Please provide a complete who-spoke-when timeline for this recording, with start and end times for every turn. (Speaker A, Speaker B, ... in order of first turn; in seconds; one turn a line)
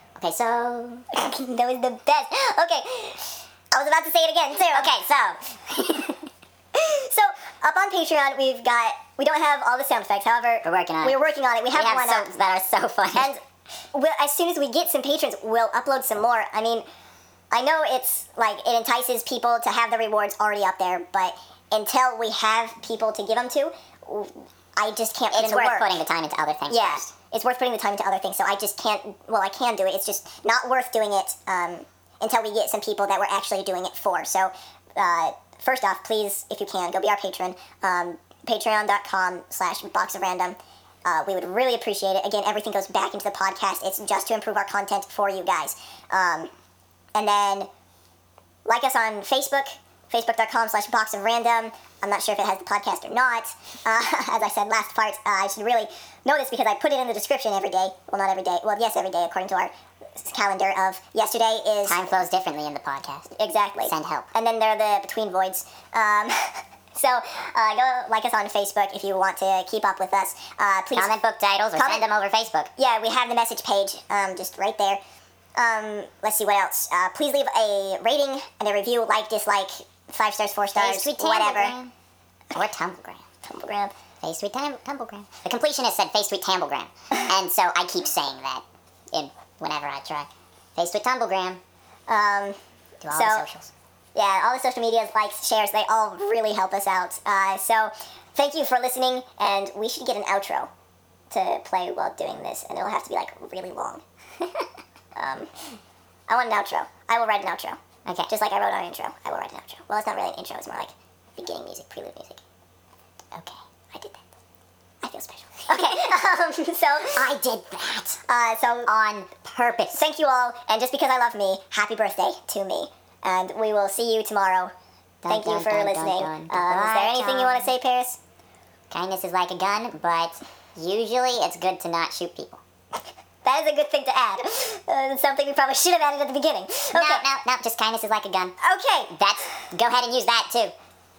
Speaker A: 0.2-1.0
Speaker B: 1.1-4.9
Speaker A: 4.7-6.2
Speaker B: 6.8-12.3
Speaker A: 10.6-11.2
Speaker A: 11.7-13.3
Speaker B: 13.1-13.4
Speaker B: 13.9-16.9
Speaker B: 17.5-25.9
Speaker A: 25.3-27.1
Speaker B: 26.7-46.5
Speaker B: 47.1-47.7
Speaker B: 48.7-62.1
Speaker A: 61.9-63.3
Speaker B: 63.4-71.2
Speaker A: 63.9-64.3
Speaker A: 71.0-72.7
Speaker B: 71.8-72.0
Speaker B: 72.8-75.0
Speaker B: 75.6-81.8
Speaker A: 80.8-81.9
Speaker A: 82.5-83.2
Speaker B: 83.5-83.9
Speaker A: 84.2-91.6
Speaker B: 92.1-92.6
Speaker A: 93.0-93.7
Speaker B: 93.1-93.5
Speaker B: 94.2-100.7
Speaker B: 101.3-104.0
Speaker B: 105.2-105.5
Speaker B: 106.3-112.4
Speaker A: 113.3-113.6
Speaker B: 115.0-117.3
Speaker A: 115.7-116.1
Speaker A: 117.1-118.2
Speaker B: 118.3-118.9
Speaker A: 118.9-120.0
Speaker B: 119.9-124.7
Speaker A: 125.2-127.7
Speaker B: 125.3-128.2
Speaker A: 128.9-132.6
Speaker B: 133.4-137.2
Speaker A: 136.9-138.5
Speaker B: 138.6-139.2
Speaker A: 139.1-140.7